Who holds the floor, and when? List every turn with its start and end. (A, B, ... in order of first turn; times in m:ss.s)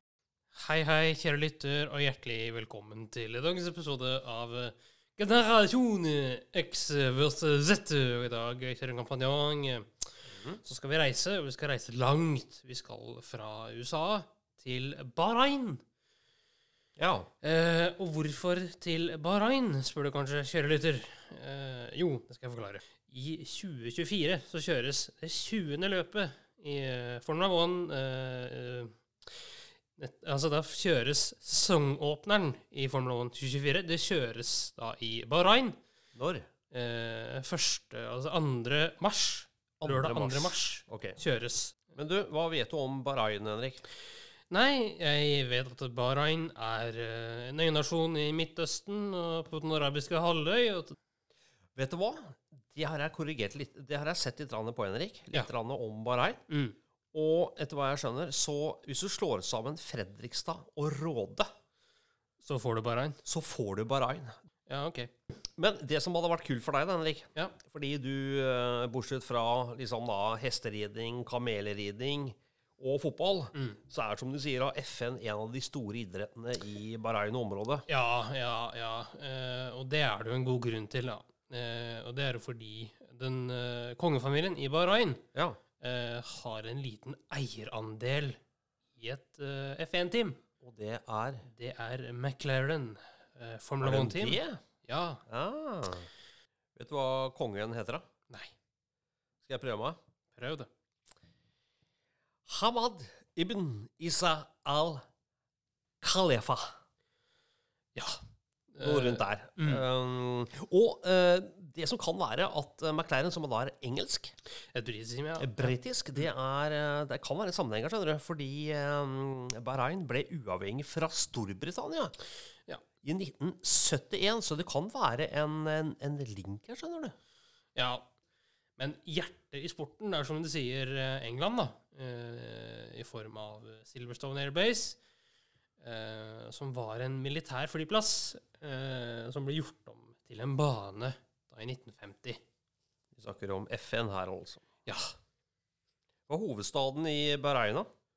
0:00.5-0:15.8 A
0:10.3-0:10.6 B
0:17.0-0:17.3 B
0:17.4-0:29.4 A
0:30.0-0:35.8 A
0:36.2-0:36.5 B
0:36.7-0:41.8 A
0:39.8-0:41.2 B
0:42.0-0:43.8 B
0:44.5-0:51.0 A
0:51.8-0:56.4 B
0:56.5-0:56.8 A
0:57.1-1:01.5 B
1:02.4-1:03.2 A
1:03.2-1:04.4 B
1:04.7-1:05.1 A
1:05.6-1:17.8 B
1:13.5-1:13.8 A
1:17.9-1:25.2 A
1:25.8-1:28.4 A
1:29.0-1:30.4 A
1:30.6-1:31.4 B
1:31.5-1:35.2 A
1:33.8-1:34.6 B
1:35.3-1:36.1 B
1:36.8-1:38.0 B
1:38.3-1:38.5 A
1:39.4-1:40.0 B
1:40.3-1:40.7 A
1:42.5-1:45.0 B
1:46.0-1:46.8 B
1:48.7-1:49.8 A
1:48.8-1:54.3 B
1:54.7-1:56.3 A
1:55.4-2:02.2 B
2:03.0-2:07.1 B
2:07.8-2:08.1 A
2:08.8-2:15.0 A
2:15.8-2:22.4 A
2:23.2-2:24.6 B
2:24.9-2:25.1 A
2:26.3-2:27.9 B